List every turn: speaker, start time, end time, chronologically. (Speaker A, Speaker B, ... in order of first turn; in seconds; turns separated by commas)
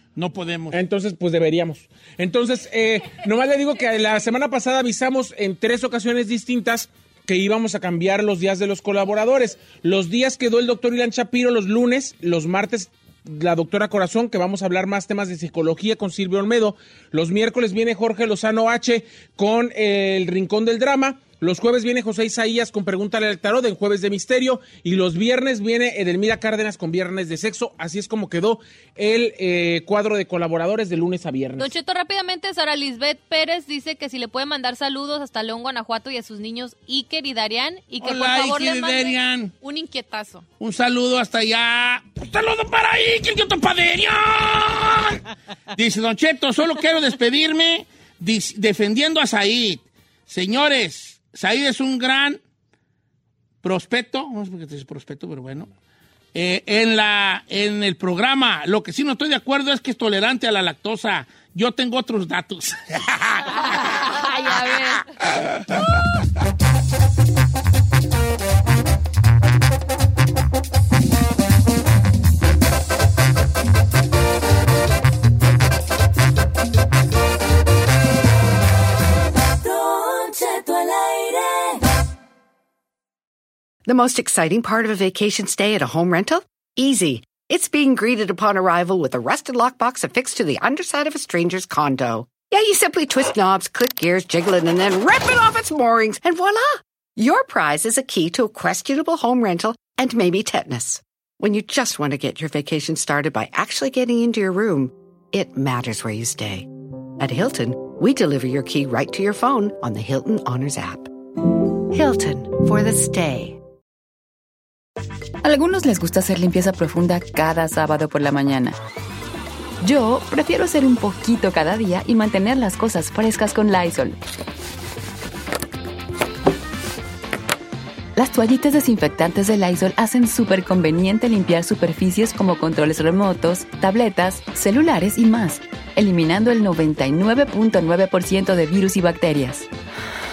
Speaker A: 0.2-0.8, Speaker B: 0.7-31.7, Speaker C: 31.6-40.5, Speaker A: 38.0-39.5, Speaker A: 40.6-52.4, Speaker A: 53.6-55.7, Speaker A: 56.3-65.9, Speaker C: 63.5-65.1, Speaker D: 79.6-81.8, Speaker E: 83.9-106.7, Speaker E: 107.2-111.1, Speaker E: 111.9-113.6, Speaker F: 115.4-118.8, Speaker F: 119.8-124.2, Speaker F: 128.2-139.7